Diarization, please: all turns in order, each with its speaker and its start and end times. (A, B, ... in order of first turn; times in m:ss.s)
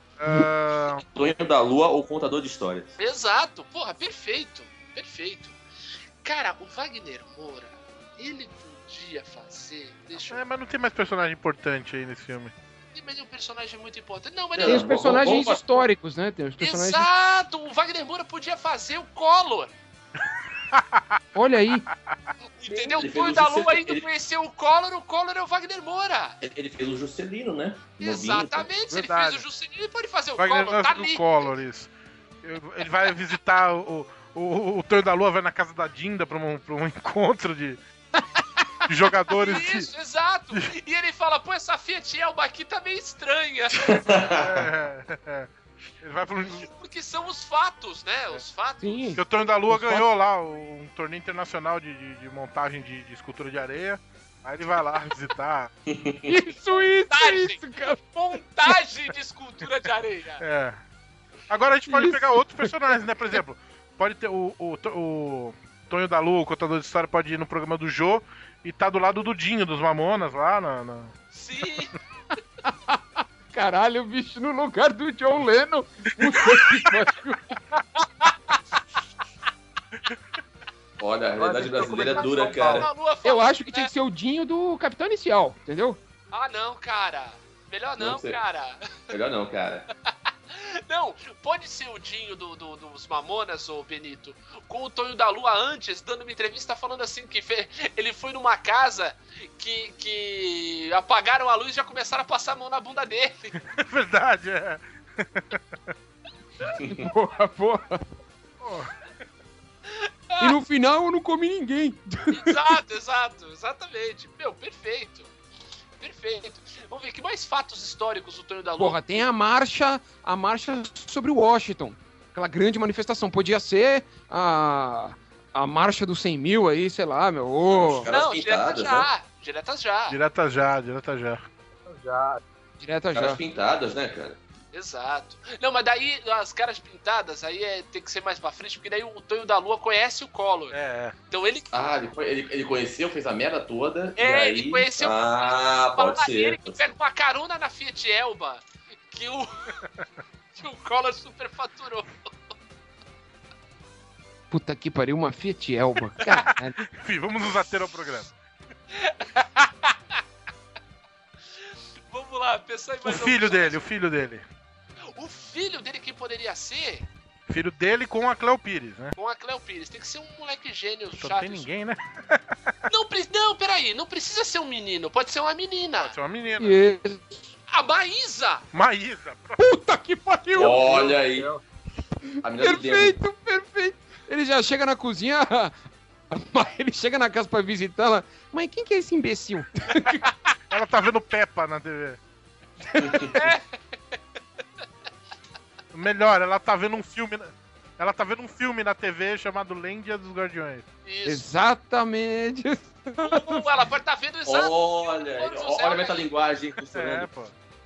0:00.2-0:01.0 A
0:01.1-0:02.9 B
0:03.0-0:05.6 C
0:06.2-0:10.4 C
0:10.2-0:12.5 A
0:12.9-0:14.9 C
0:14.6-0:15.6 B
0:14.6-0:17.1 D
0:16.6-0:19.7 C
0:20.7-0:21.2 A
0:21.3-0:21.9 D
0:22.6-0:26.4 C
0:22.9-0:24.0 B
0:26.4-0:28.7 B
0:28.0-0:31.5 C
0:28.9-0:29.4 A
0:30.4-0:31.9 A
0:32.4-0:37.8 A
0:38.9-0:39.9 A
0:39.3-0:43.9 C
0:43.8-0:44.7 B
0:44.4-0:45.5 A
0:46.0-0:46.7 A
0:46.6-0:49.2 C
0:48.8-0:50.1 D
0:49.2-0:55.7 A
0:55.9-0:56.4 B
0:56.3-0:58.0 D
0:57.1-1:00.4 C
1:00.4-1:00.8 A
1:01.5-1:11.1 A
1:01.9-1:03.4 D
1:11.3-1:11.9 C
1:12.6-1:17.6 D
1:16.3-1:16.9 A
1:21.0-1:22.9 B
1:21.4-1:22.9 E
1:22.2-1:23.9 C
1:23.2-1:26.0 D
1:26.3-1:29.1 C
1:28.0-1:28.4 B
1:29.1-1:29.9 B
1:30.5-1:43.5 C
1:43.7-1:45.6 A
1:46.9-1:48.0 D
1:48.6-1:48.9 A
1:49.9-1:50.6 C
1:50.4-1:52.8 D
1:52.3-1:55.3 C
1:56.0-1:59.0 C
1:58.8-2:08.1 D
2:07.7-2:09.1 B
2:08.1-2:10.2 C
2:10.1-2:11.4 A
2:11.9-2:12.4 E
2:12.8-2:13.4 D
2:13.1-2:14.4 B
2:14.7-2:20.8 C
2:20.7-2:21.1 A
2:21.3-2:21.7 C
2:21.7-2:26.8 B
2:24.2-2:29.8 C
2:30.6-2:32.3 C
2:34.5-2:36.8 D
2:36.9-2:38.3 A
2:38.9-2:40.2 C
2:42.1-2:43.8 C
2:43.0-2:44.4 A
2:45.2-2:47.1 C
2:47.5-2:49.2 A
2:49.2-2:51.7 C
2:51.2-2:52.4 A
2:52.9-2:56.1 C
2:56.0-2:56.8 A
2:56.6-2:57.5 D
2:57.7-2:58.6 C
2:58.7-2:59.6 A
2:59.6-3:01.0 D
3:00.6-3:01.5 B
3:00.6-3:01.6 E
3:02.4-3:03.2 B
3:02.6-3:05.7 D
3:06.3-3:10.3 D
3:10.7-3:12.2 A
3:13.0-3:13.3 B
3:13.3-3:13.6 C
3:15.9-3:20.8 A
3:21.0-3:21.4 C
3:21.3-3:23.6 D
3:23.2-3:26.2 C
3:24.5-3:27.3 B
3:26.9-3:27.5 A